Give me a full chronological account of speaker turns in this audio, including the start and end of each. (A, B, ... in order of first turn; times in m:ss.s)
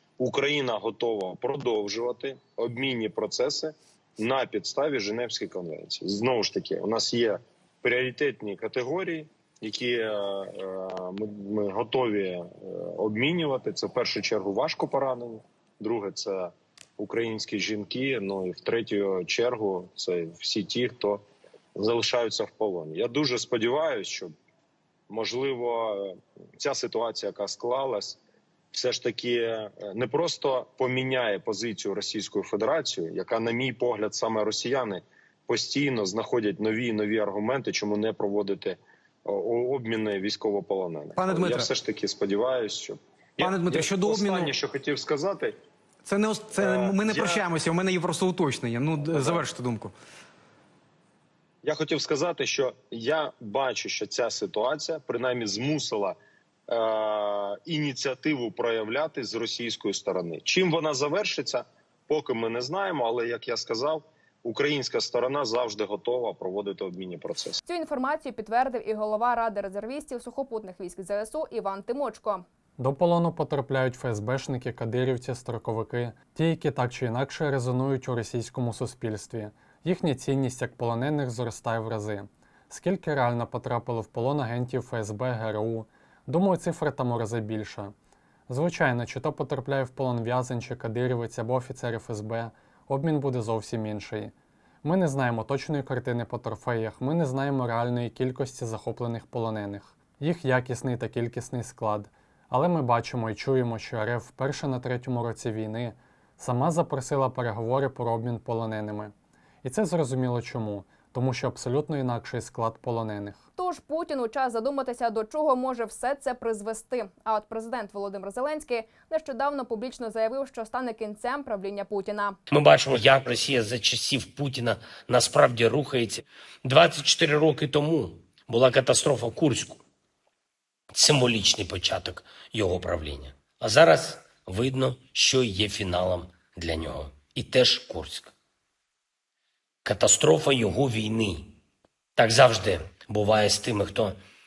0:00.2-0:21.2 A
0:21.8-0:24.3 A
0:25.1-0:28.2 A
0:28.7-0:45.6 A
0:41.2-0:41.7 B
0:43.4-0:44.5 B
0:46.1-0:49.9 B
0:46.6-0:47.5 A
0:49.0-0:49.5 A
0:51.6-0:56.2 A
0:56.7-1:07.6 A
1:07.7-1:12.4 C
1:12.8-1:27.9 D
1:28.5-1:53.4 D
1:53.6-2:02.4 C
2:02.5-2:09.8 E
2:10.9-2:18.3 E
2:19.8-2:21.6 E
2:22.2-2:24.2 E